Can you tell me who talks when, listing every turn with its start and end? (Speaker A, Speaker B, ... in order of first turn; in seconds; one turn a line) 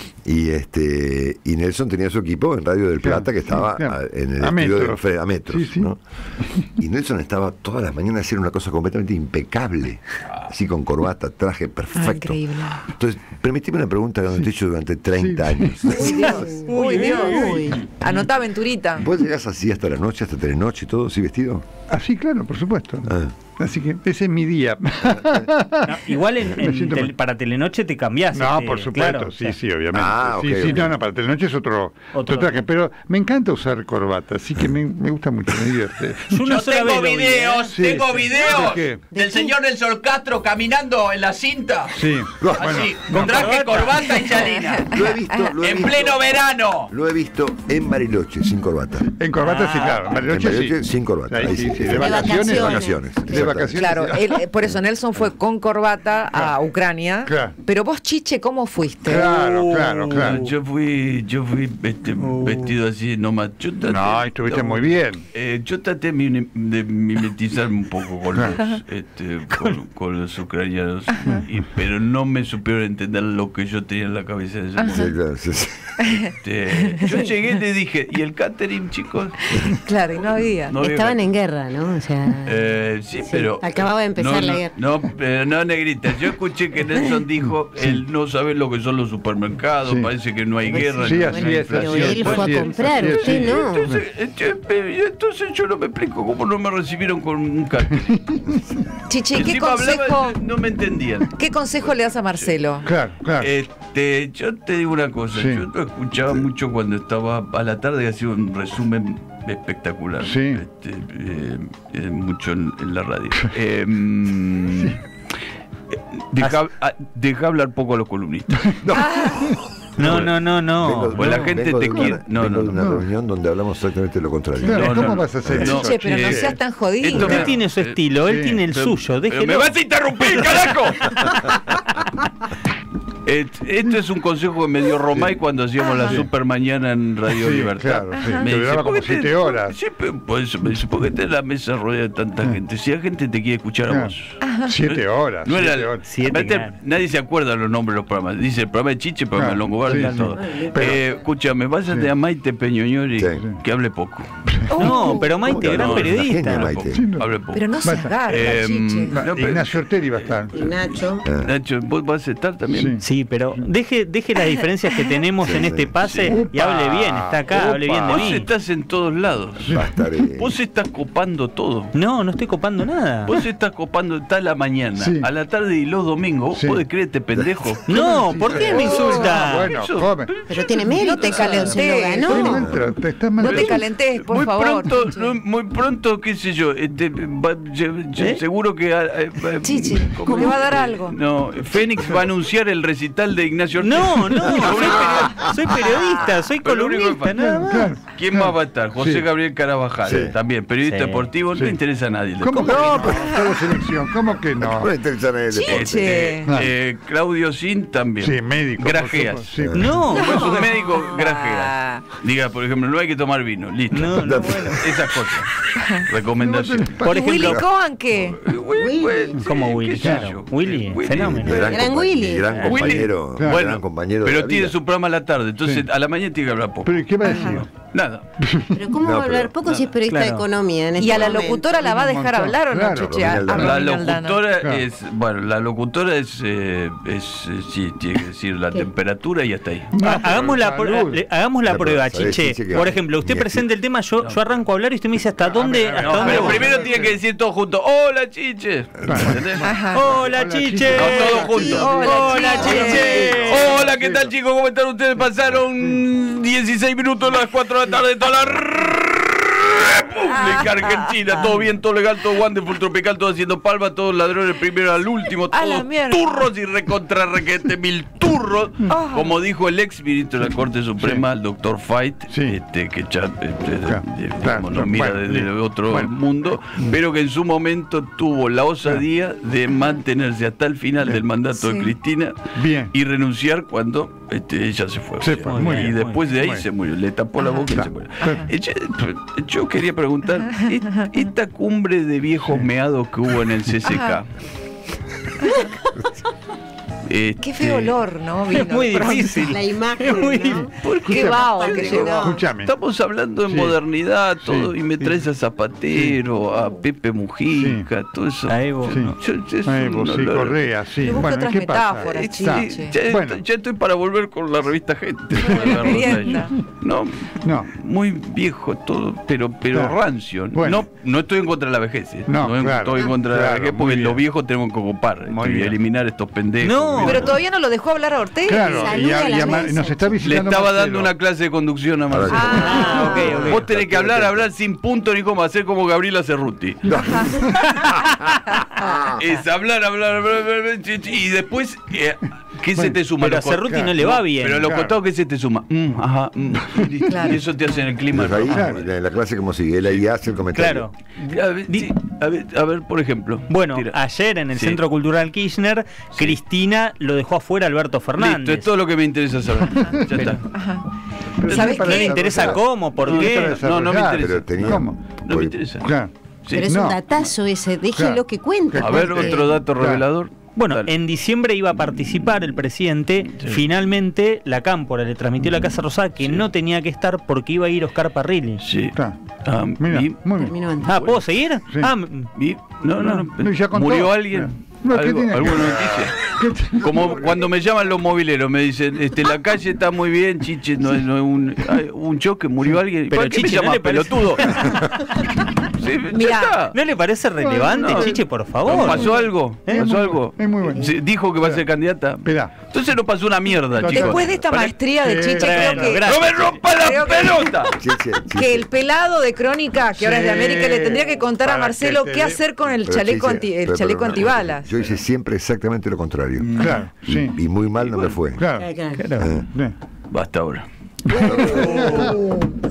Speaker A: 0.2-6.0
Speaker B: 3.0-5.9
Speaker A: 6.8-16.6
Speaker C: 11.9-12.8
Speaker B: 15.2-16.0
Speaker C: 15.9-19.1
Speaker D: 15.9-17.8
Speaker E: 16.7-17.8
Speaker A: 19.0-21.7
Speaker B: 21.9-27.1
Speaker A: 23.1-23.4
Speaker A: 25.0-25.5
Speaker E: 25.9-29.6
Speaker B: 28.3-36.4
Speaker A: 29.9-30.9
Speaker E: 32.1-32.6
Speaker E: 36.3-37.9
Speaker F: 36.5-45.0
Speaker B: 37.7-39.1
Speaker D: 39.1-39.5
Speaker B: 42.0-43.5
Speaker A: 42.4-43.4
Speaker E: 43.1-44.2
Speaker C: 44.5-44.8
Speaker A: 44.9-46.3
Speaker F: 45.6-46.9
Speaker A: 46.9-49.1
Speaker B: 49.2-54.4
Speaker E: 49.4-50.3
Speaker A: 50.3-54.0
Speaker D: 51.9-53.6
Speaker C: 53.8-59.3
Speaker B: 57.3-57.5
Speaker B: 59.0-60.5
Speaker G: 59.1-75.2
Speaker E: 60.1-60.5
Speaker E: 62.2-62.7
Speaker B: 63.8-65.2
Speaker C: 74.8-75.1
Speaker A: 74.9-76.1
Speaker G: 76.3-79.5
Speaker C: 79.5-80.7
Speaker G: 80.7-81.2
Speaker D: 80.8-82.6
Speaker G: 82.5-98.4
Speaker D: 83.3-84.7
Speaker D: 90.7-93.9
Speaker B: 91.0-94.0
Speaker E: 92.1-93.0
Speaker B: 98.1-98.4
Speaker A: 98.5-98.8
Speaker C: 99.1-100.4
Speaker G: 99.3-101.3
Speaker C: 101.3-102.9
Speaker B: 102.8-103.5
Speaker G: 103.4-115.0
Speaker B: 105.3-105.7
Speaker B: 110.2-110.6
Speaker B: 114.7-115.0
Speaker G: 115.9-118.8
Speaker A: 118.8-125.7
Speaker C: 119.0-119.4
Speaker E: 120.0-121.5
Speaker G: 120.0-120.3
Speaker G: 121.2-122.8
Speaker B: 122.8-123.0
Speaker B: 124.6-126.6
Speaker G: 124.7-128.0
Speaker C: 125.6-127.5
Speaker E: 127.1-129.8
Speaker B: 127.1-127.5
Speaker B: 128.2-128.6
Speaker G: 128.7-131.4
Speaker B: 130.4-130.6
Speaker G: 133.2-157.7
Speaker B: 136.0-136.3
Speaker B: 137.3-139.8
Speaker C: 138.2-138.5
Speaker B: 143.9-146.1
Speaker C: 144.4-144.7
Speaker E: 146.0-146.7
Speaker B: 149.3-151.0
Speaker E: 149.9-150.6
Speaker D: 150.3-151.2
Speaker A: 153.2-153.4
Speaker B: 154.5-154.8
Speaker C: 154.7-155.2
Speaker E: 154.8-156.8
Speaker A: 155.2-157.1
Speaker B: 156.9-157.3
Speaker C: 157.5-159.2
Speaker B: 157.8-158.2
Speaker G: 158.2-163.0
Speaker B: 159.1-160.5
Speaker D: 160.5-161.2
Speaker A: 161.2-161.5
Speaker B: 162.7-163.0
Speaker E: 163.0-168.5
Speaker A: 165.4-166.0
Speaker G: 166.0-166.4
Speaker B: 166.2-168.3
Speaker G: 168.0-169.8
Speaker B: 169.6-169.9
Speaker A: 169.7-170.6
Speaker G: 170.3-171.9
Speaker E: 171.9-173.3
Speaker G: 173.3-181.9
Speaker B: 175.0-175.3
Speaker B: 176.5-176.8
Speaker A: 177.3-177.8
Speaker E: 177.9-179.8
Speaker B: 177.9-180.3
Speaker D: 180.5-182.7
Speaker C: 181.0-182.6
Speaker B: 182.2-183.8
Speaker A: 182.4-182.9
Speaker C: 183.4-185.1
Speaker G: 183.4-195.9
Speaker E: 188.2-188.4
Speaker C: 189.6-191.2
Speaker E: 193.8-198.0
Speaker G: 196.6-203.3
Speaker B: 197.4-199.2
Speaker A: 200.0-200.3
Speaker B: 200.1-200.3
Speaker E: 200.9-201.3
Speaker B: 201.5-201.8
Speaker B: 202.4-204.9
Speaker A: 202.8-203.2
Speaker A: 204.6-206.3
Speaker C: 205.5-206.5
Speaker G: 205.7-209.5
Speaker B: 208.2-210.2
Speaker A: 209.6-209.9
Speaker E: 209.7-210.4
Speaker G: 210.1-217.6
Speaker C: 210.1-212.0
Speaker E: 213.9-214.8
Speaker A: 214.2-215.1
Speaker B: 216.4-217.5
Speaker C: 217.1-218.4
Speaker F: 217.2-217.5
Speaker G: 218.3-221.8
Speaker D: 218.8-219.5
Speaker E: 219.4-221.9
Speaker B: 220.0-220.3
Speaker A: 221.2-224.8
Speaker D: 221.7-222.6
Speaker E: 222.5-222.9
Speaker G: 222.6-228.2
Speaker B: 223.3-223.6
Speaker B: 226.8-227.7
Speaker C: 227.2-227.6
Speaker B: 228.4-228.8
Speaker D: 228.7-231.8
Speaker A: 229.0-229.5
Speaker G: 229.6-229.9
Speaker E: 230.1-230.4
Speaker C: 231.0-234.4
Speaker B: 231.8-233.8
Speaker A: 233.0-233.7
Speaker G: 233.6-240.3
Speaker B: 239.9-241.2
Speaker E: 240.0-246.9
Speaker A: 241.7-243.7
Speaker B: 245.4-247.2
Speaker G: 246.0-249.7
Speaker B: 249.1-251.7
Speaker C: 249.6-250.0
Speaker E: 249.9-253.9
Speaker G: 250.9-294.3
Speaker C: 251.5-253.4
Speaker D: 251.6-252.8
Speaker B: 252.8-254.3
Speaker C: 260.3-261.1
Speaker C: 265.5-266.5
Speaker C: 268.9-269.4
Speaker B: 272.3-272.6
Speaker B: 273.8-276.1
Speaker C: 281.6-281.9
Speaker B: 282.6-282.9
Speaker B: 285.2-286.7
Speaker E: 285.4-286.3
Speaker B: 287.7-288.5
Speaker C: 293.9-294.2
Speaker G: 297.1-298.0
Speaker C: 297.4-299.4
Speaker E: 298.5-300.7
Speaker D: 299.3-302.4
Speaker G: 300.7-311.2
Speaker C: 301.1-302.4
Speaker B: 301.1-301.4
Speaker B: 302.2-302.7
Speaker B: 303.5-303.8
Speaker B: 304.4-304.7
Speaker B: 307.5-307.9
Speaker E: 308.5-309.0
Speaker B: 308.9-313.4
Speaker C: 311.0-313.0
Speaker G: 312.0-327.3
Speaker C: 315.5-316.5
Speaker B: 315.5-315.8
Speaker B: 317.4-317.7
Speaker B: 319.7-320.9
Speaker B: 322.3-324.2
Speaker B: 325.3-325.8
Speaker E: 326.6-327.3
Speaker C: 327.0-329.0
Speaker B: 328.5-331.1
Speaker D: 328.5-330.2
Speaker G: 330.2-338.1
Speaker A: 332.1-334.5
Speaker C: 332.4-333.1
Speaker E: 332.4-333.6
Speaker A: 336.9-338.1
Speaker G: 339.1-348.9
Speaker B: 342.8-343.1
Speaker E: 343.1-344.7
Speaker B: 344.6-344.9
Speaker C: 347.1-347.4
Speaker A: 348.1-350.9
Speaker B: 348.5-348.8
Speaker E: 350.5-350.9
Speaker G: 351.1-353.9
Speaker E: 353.5-358.7
Speaker G: 358.2-360.4
Speaker B: 359.8-360.4
Speaker C: 360.5-360.8
Speaker B: 361.4-365.0
Speaker C: 361.5-362.2
Speaker G: 361.5-362.0
Speaker E: 361.5-363.6
Speaker A: 362.1-362.6
Speaker G: 363.0-365.9
Speaker A: 364.1-365.6
Speaker B: 365.8-366.1
Speaker D: 366.5-369.6
Speaker B: 366.6-367.0
Speaker B: 367.9-370.0
Speaker G: 368.8-370.9
Speaker E: 370.6-378.6
Speaker G: 373.3-373.6
Speaker G: 378.6-380.2
Speaker B: 379.8-380.6
Speaker D: 380.4-380.9
Speaker G: 380.8-381.2
Speaker E: 380.9-382.3
Speaker B: 381.7-381.9
Speaker G: 382.4-394.9
Speaker B: 383.0-387.3
Speaker E: 393.1-394.9
Speaker B: 394.5-394.8
Speaker G: 395.7-396.8
Speaker C: 396.1-396.6
Speaker E: 396.7-399.9
Speaker B: 397.4-401.6
Speaker G: 397.8-404.2
Speaker B: 402.2-402.5
Speaker B: 403.8-404.3
Speaker C: 403.8-407.5
Speaker B: 404.9-406.1
Speaker E: 405.4-406.7
Speaker G: 406.1-407.7
Speaker A: 407.8-408.7
Speaker C: 408.3-414.8
Speaker B: 409.9-412.4
Speaker A: 412.8-418.4
Speaker G: 416.4-416.9
Speaker B: 416.6-417.4
Speaker G: 417.8-418.2
Speaker B: 418.4-418.7
Speaker D: 418.6-419.0
Speaker E: 419.0-419.4
Speaker A: 419.2-419.5
Speaker B: 419.5-419.8
Speaker G: 420.1-420.7
Speaker D: 421.1-422.5
Speaker A: 421.2-422.1
Speaker B: 421.2-422.1
Speaker G: 421.6-422.1